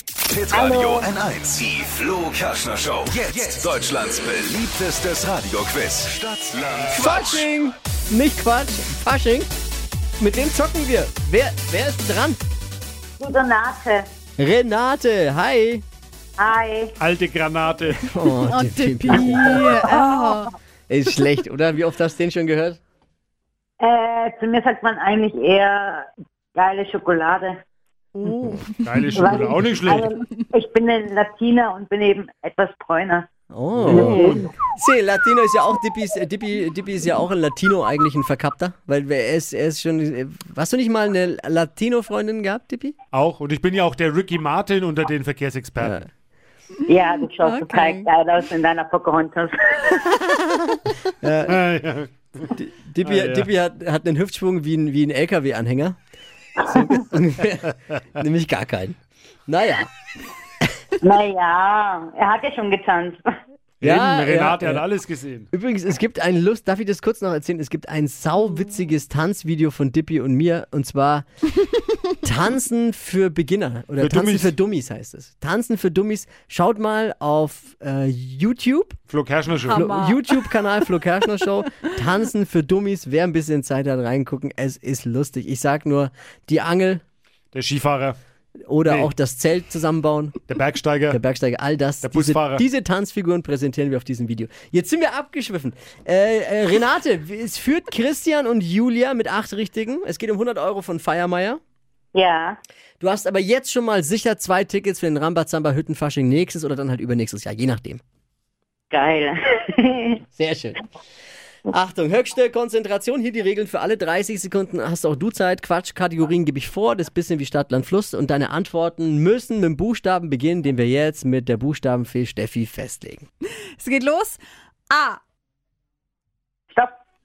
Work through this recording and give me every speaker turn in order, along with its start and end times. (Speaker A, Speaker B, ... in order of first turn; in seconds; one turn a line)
Speaker A: 0.3-7.5
Speaker B: 0.5-1.1
Speaker C: 6.9-9.5
Speaker C: 10.2-12.4
Speaker B: 13.2-14.1
Speaker C: 14.4-15.8
Speaker B: 16.4-16.9
Speaker D: 17.0-18.1
Speaker C: 17.9-19.7
Speaker E: 18.4-20.5
Speaker C: 20.9-22.8
Speaker B: 23.8-27.6
Speaker E: 28.2-29.4
Speaker D: 28.8-30.1
Speaker B: 29.1-33.3
Speaker C: 33.5-43.0
Speaker D: 33.8-34.4
Speaker B: 33.9-34.5
Speaker D: 43.1-46.0
Speaker C: 45.8-46.0
Speaker B: 46.9-50.1
Speaker E: 47.4-48.1
Speaker C: 51.1-51.6
Speaker D: 51.5-52.5
Speaker C: 52.4-56.0
Speaker D: 53.0-53.5
Speaker C: 56.6-59.9
Speaker B: 61.0-63.2
Speaker D: 63.8-65.5
Speaker C: 63.8-64.8
Speaker C: 65.5-71.2
Speaker C: 72.1-79.0
Speaker D: 74.0-74.5
Speaker D: 79.1-79.9
Speaker E: 79.7-80.5
Speaker C: 79.7-87.0
Speaker D: 87.5-88.2
Speaker C: 88.7-90.4
Speaker D: 88.8-89.1
Speaker D: 90.5-91.2
Speaker C: 91.1-101.6
Speaker D: 92.0-92.6
Speaker B: 102.1-102.6
Speaker C: 103.0-108.0
Speaker B: 108.9-110.2
Speaker C: 110.3-110.8
Speaker C: 111.7-123.3
Speaker E: 123.8-125.2